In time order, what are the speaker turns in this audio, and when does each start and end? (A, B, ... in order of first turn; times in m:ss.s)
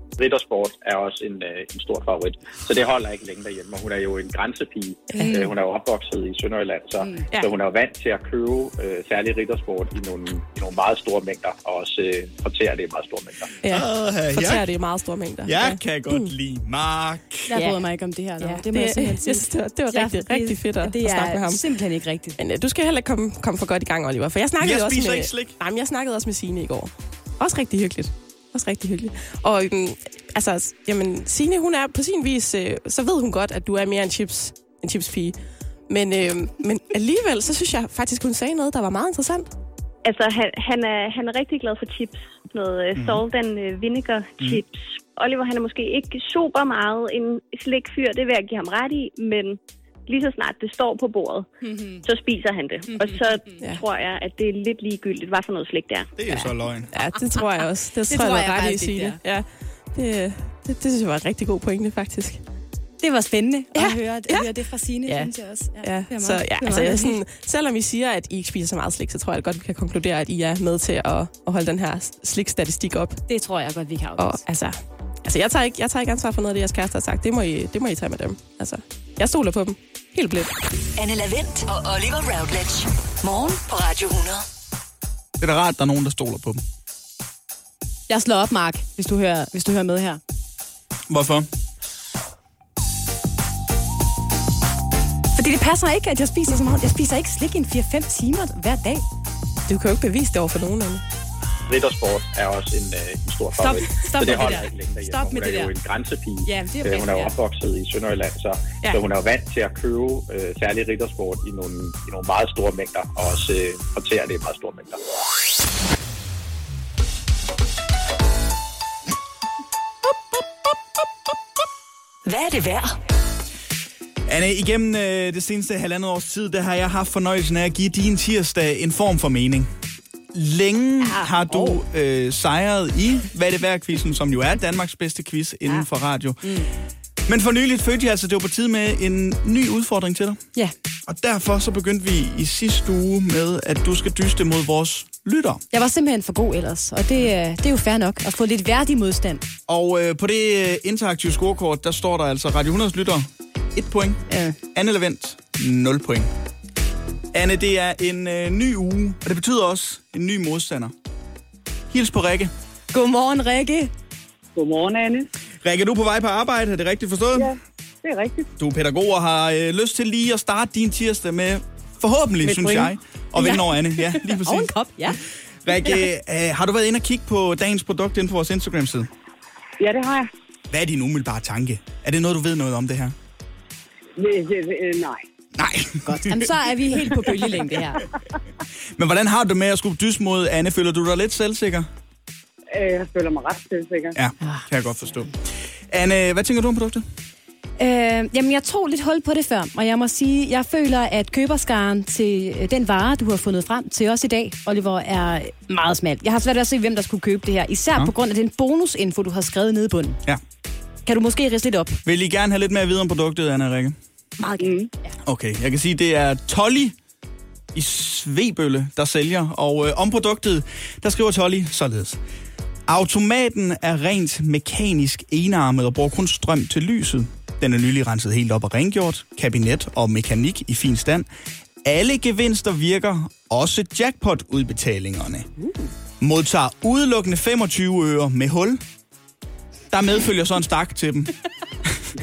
0:00.2-0:13.6 A
0:05.1-0:05.5 B
0:05.2-0:05.5 C
0:13.6-0:16.3 B
0:13.7-0:14.6 D
0:15.4-0:17.5 D
0:17.5-0:22.4 C
0:17.5-0:17.8 B
0:18.4-0:21.6 B
0:22.4-0:35.4 B
0:24.6-0:25.6 D
0:35.9-0:39.5 B
0:40.0-0:51.5 E
0:42.9-0:43.2 D
0:51.7-0:52.0 C
0:52.0-0:56.1 E
0:56.2-0:56.9 D
0:56.9-1:02.4 B
0:58.1-0:59.2 C
1:03.0-1:07.2 C
1:03.8-1:04.5 B
1:05.1-1:13.2 B
1:13.3-1:14.4 C
1:14.2-1:20.5 B
1:21.0-1:24.4 F
1:25.4-1:26.6 D
1:28.1-1:30.2 C
1:31.1-1:31.5 D
1:35.3-1:39.0 C
1:39.7-1:41.0 B
1:41.7-1:55.0 A
1:43.6-1:45.7 C
1:46.4-1:47.3 C
2:02.2-2:03.0 F
2:04.3-2:09.7 D
2:10.3-2:16.4 D
2:11.0-2:11.8 C
2:16.4-2:16.7 C
2:17.2-2:20.4 D
2:21.1-2:25.6 D
2:25.7-2:29.4 C
2:29.7-2:34.2 D
2:34.3-2:34.6 C
2:34.7-2:36.3 D
2:37.3-2:40.9 D
2:41.9-2:42.5 D
2:42.9-2:43.9 C
2:44.5-2:45.3 G
2:45.6-2:47.5 D
2:47.3-2:48.5 G
2:48.6-2:54.7 D
2:52.4-2:52.9 G
2:53.4-2:55.2 C
2:55.6-2:59.1 D
2:59.8-3:00.3 G
3:00.7-3:03.1 D
3:04.2-3:05.2 G
3:05.6-3:06.4 D
3:06.0-3:08.1 C
3:09.0-3:11.9 D
3:12.7-3:14.2 G
3:14.2-3:15.3 D
3:14.4-3:15.1 C
3:15.9-3:17.0 D
3:17.8-3:30.2 C
3:31.0-3:32.0 C
3:32.0-3:33.9 D
3:34.4-3:35.2 C
3:34.6-3:34.9 G
3:35.2-3:36.9 D
3:37.7-3:42.2 D
3:42.9-3:51.3 D
3:51.8-3:55.5 D
3:56.2-3:58.8 D
3:59.9-4:01.3 D